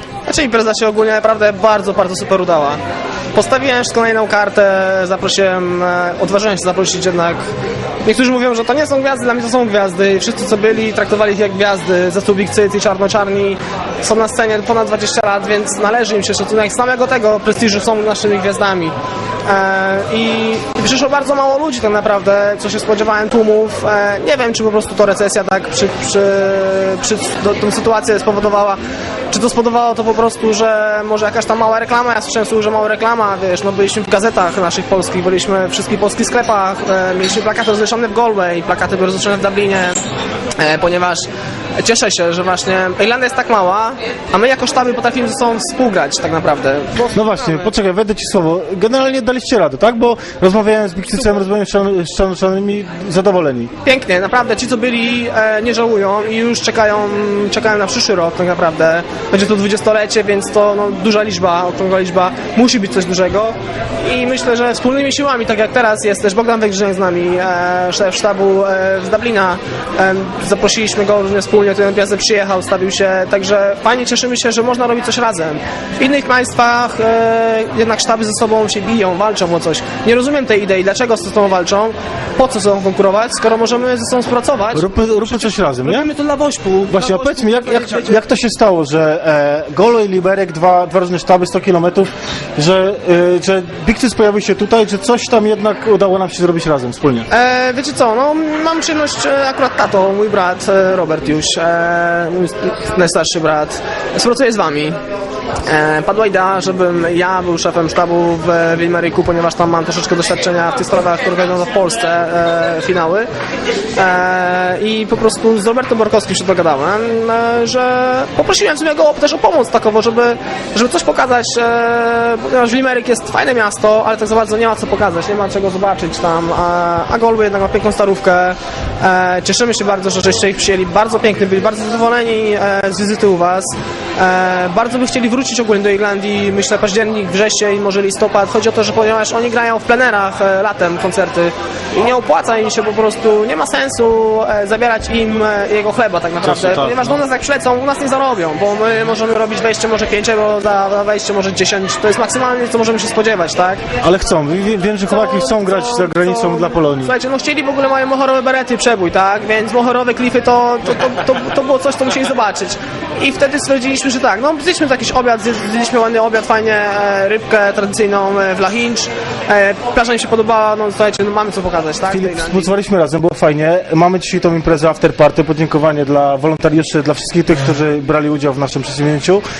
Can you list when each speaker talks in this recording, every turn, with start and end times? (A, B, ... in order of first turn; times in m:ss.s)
0:00.3-0:02.8 A
0:03.3-0:07.4 A
0:08.0-0:28.8 A
0:29.3-0:40.0 A
0:40.6-0:47.7 A
0:47.1-0:53.7 B
0:53.8-1:28.2 A
1:24.7-1:26.1 B
1:26.9-1:37.3 B
1:37.3-1:45.0 A
1:45.6-1:53.3 A
1:54.0-2:33.8 A
2:26.4-2:27.2 B
2:34.0-2:37.1 B
2:35.1-2:52.7 A
2:52.1-2:59.4 B